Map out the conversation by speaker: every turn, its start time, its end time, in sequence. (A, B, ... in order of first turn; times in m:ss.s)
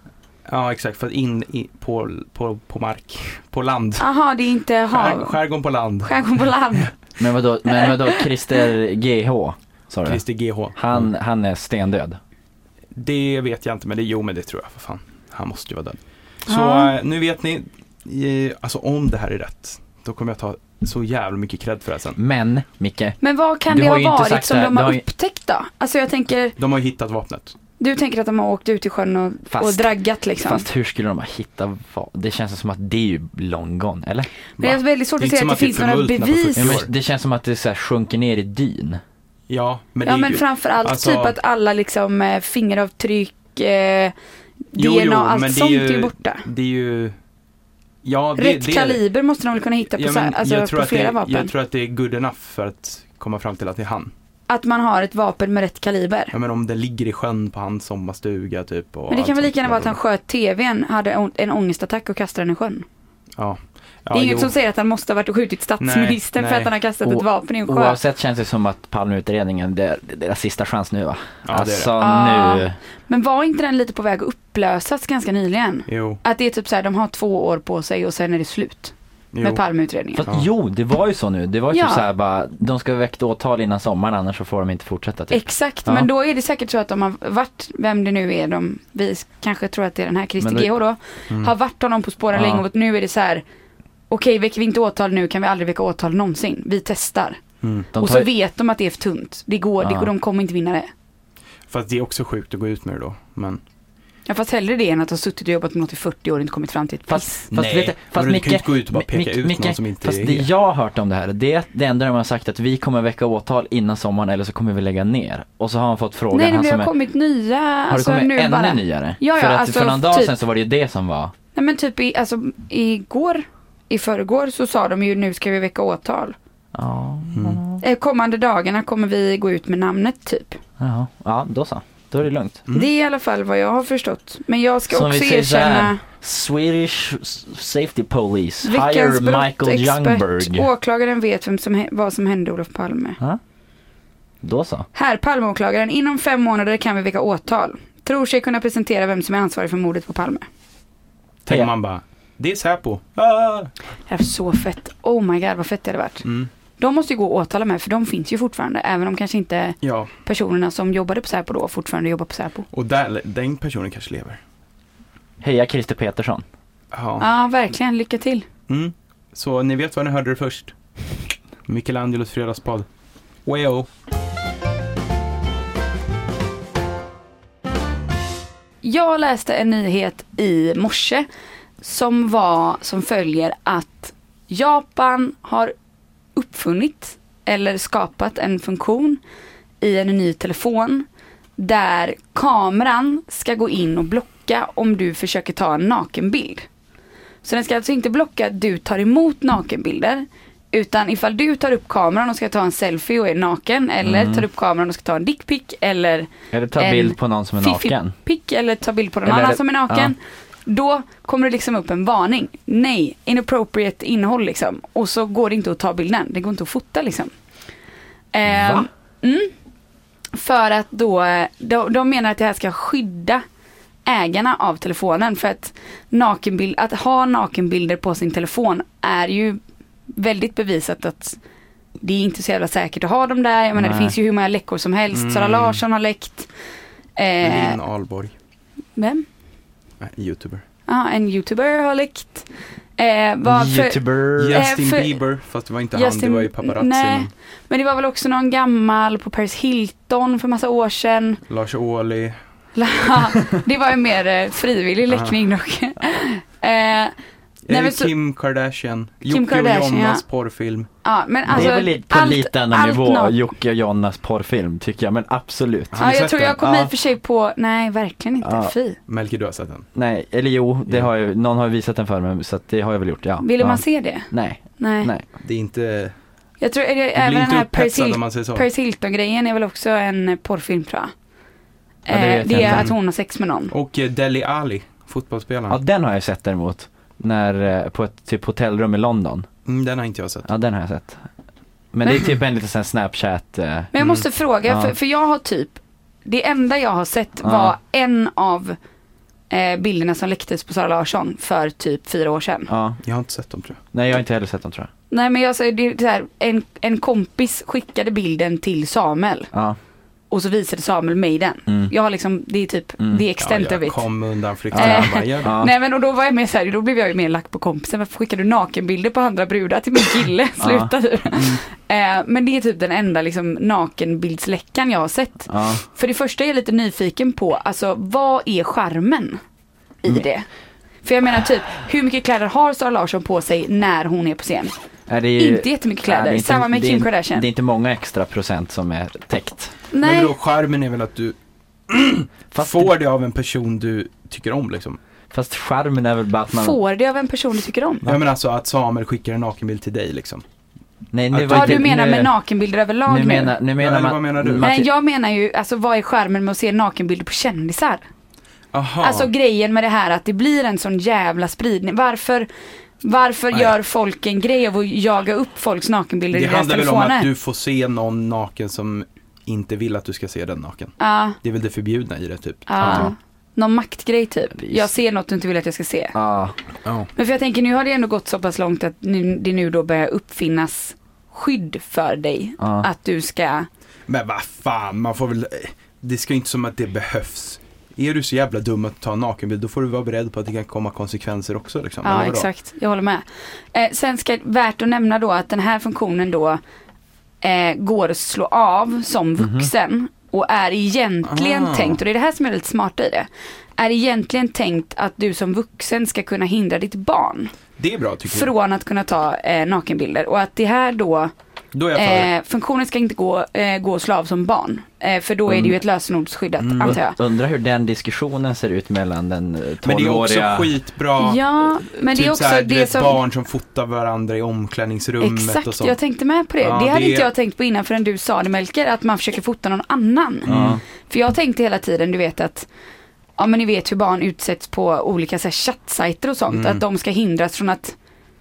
0:00.5-0:04.1 A
0:04.0-0:05.4 B
0:04.9-0:06.5 A
0:06.0-0:06.9 B
0:07.2-0:10.2 C
0:07.7-0:08.2 B
0:10.0-0:11.1 A
0:10.7-0:12.2 C
0:12.9-0:22.2 A
0:16.5-0:16.9 B
0:22.2-0:25.0 C
0:23.2-0:26.6 B
0:26.6-0:27.5 A
0:27.8-0:30.6 B
0:29.5-0:34.3 C
0:34.6-0:36.7 B
0:34.6-0:36.9 A
0:36.6-0:39.0 C
0:39.5-0:41.3 A
0:40.0-0:44.1 B
0:44.7-0:46.4 B
0:44.8-0:47.1 A
0:48.0-0:49.0 A
0:48.4-0:51.5 B
0:49.9-0:54.1 A
0:54.5-0:56.3 B
0:56.3-1:00.0 A
0:59.1-1:02.8 B
1:03.4-1:04.5 A
1:04.1-1:08.0 B
1:05.8-1:06.7 A
1:07.0-1:12.8 C
1:11.4-1:11.9 A
1:12.0-1:20.2 B
1:15.9-1:16.2 A
1:19.3-1:19.6 A
1:20.1-1:26.1 C
1:21.7-1:22.0 B
1:25.3-1:33.4 B
1:30.4-1:30.7 C
1:32.3-1:32.6 C
1:34.1-1:37.4 B
1:37.6-1:37.9 A
1:37.9-1:38.3 C
1:37.9-1:40.9 B
1:39.8-1:40.1 C
1:41.7-1:43.6 A
1:44.3-1:47.4 B
1:47.1-1:56.9 C
1:47.5-1:50.5 A
1:56.3-2:00.3 B
1:57.9-2:01.3 C
2:01.5-2:06.4 B
2:06.7-2:07.8 C
2:07.3-2:07.6 A
2:07.8-2:10.6 B
2:10.8-2:12.6 C
2:12.7-2:16.0 B
2:14.9-2:20.7 C
2:18.6-2:23.2 B
2:24.4-2:24.8 C
2:24.9-2:30.4 B
2:31.4-2:33.7 A
2:34.1-2:36.2 B
2:36.2-2:36.5 A
2:36.8-2:42.6 B
2:39.8-2:40.1 A
2:42.7-2:44.4 A
2:45.4-2:46.4 C
2:46.9-2:47.3 A
2:47.2-2:48.5 B
2:48.7-2:50.7 A
2:51.7-2:52.9 A
2:53.4-2:53.9 A
2:58.8-3:01.3 B
3:01.8-3:05.7 B
3:06.4-3:09.2 B
3:09.8-3:11.0 B
3:11.6-3:16.7 B
3:17.4-3:37.3 B
3:24.0-3:24.4 C
3:26.5-3:28.1 C
3:29.2-3:30.1 C
3:38.3-3:39.5 B
3:38.4-3:38.9 C
3:40.3-3:43.4 B
3:44.0-3:49.6 B
3:50.1-3:51.4 B
3:52.0-3:56.5 B
3:53.8-3:54.1 C
3:55.1-3:55.8 A
3:57.2-3:57.8 B
3:57.4-3:58.3 A
3:59.0-3:59.2 B
4:00.0-4:00.6 A
4:00.9-4:05.2 B
4:03.4-4:04.7 C
4:04.4-4:07.3 A
4:05.9-4:11.4 B
4:11.5-4:12.4 A
4:12.8-4:17.1 B
4:15.1-4:15.4 A
4:17.7-4:20.9 A
4:17.7-4:18.1 B
4:19.3-4:20.2 B
4:21.0-4:23.3 B
4:21.5-4:26.9 C
4:25.9-4:26.7 A
4:26.0-4:29.0 B
4:28.4-4:28.7 C
4:29.1-4:29.9 A
4:29.9-4:35.2 C
4:33.4-4:35.1 B
4:35.4-4:36.1 A
4:36.6-4:41.1 B
4:37.1-4:38.7 A
4:42.1-4:43.7 B
4:42.1-4:42.9 C
4:42.6-4:42.9 A
4:43.7-4:45.8 A
4:45.7-4:49.4 C
4:49.6-4:50.5 A
4:50.4-4:51.2 C
4:51.9-4:53.9 C
4:53.9-4:58.8 B
4:54.7-4:54.9 C
4:57.4-4:57.7 C
4:59.5-5:02.7 B
5:02.7-5:03.0 C
5:03.0-5:03.8 A
5:03.9-5:04.9 C
5:05.1-5:09.5 B
5:10.3-5:14.0 B
5:11.7-5:11.9 C
5:13.0-5:13.2 C
5:13.4-5:15.5 A
5:14.7-5:15.7 C
5:14.7-5:29.4 B
5:20.6-5:20.9 C
5:21.3-5:21.6 A
5:25.5-5:25.8 C
5:30.0-5:30.5 B
5:31.0-5:34.7 B
5:35.1-5:39.7 C
5:35.4-5:37.4 B
5:39.9-5:40.3 B
5:40.0-5:41.4 A
5:41.9-5:45.0 A
5:42.5-5:42.9 C
5:45.3-5:46.8 C
5:46.5-5:48.1 B
5:48.0-5:50.4 A
5:51.1-5:52.3 C
5:51.3-5:51.9 A
5:51.5-5:53.5 B
5:53.0-5:54.9 C
5:53.8-5:54.7 A
5:54.6-5:58.0 B
5:58.7-5:59.3 A
5:59.0-6:02.5 B
6:03.0-6:07.3 B
6:06.3-6:13.1 A
6:11.0-6:11.4 B
6:12.7-6:16.1 B
6:12.8-6:13.1 C
6:14.6-6:14.9 C
6:16.1-6:16.5 C
6:17.1-6:23.7 B
6:22.6-6:22.9 C
6:24.1-6:32.5 A
6:32.0-6:36.6 B
6:37.4-6:47.5 B
6:39.4-6:39.7 C
6:41.2-6:42.0 A
6:47.8-6:48.5 A
6:48.3-6:51.3 B
6:51.7-6:52.3 A
6:51.9-6:57.2 B
6:55.5-6:55.8 C
6:56.6-6:57.0 A
6:56.8-7:00.7 C
6:59.8-7:06.0 A
7:01.2-7:03.2 B
7:05.2-7:12.7 B
7:06.6-7:07.3 A
7:10.4-7:10.8 A
7:10.4-7:10.8 C
7:13.4-7:18.0 B
7:16.5-7:16.8 A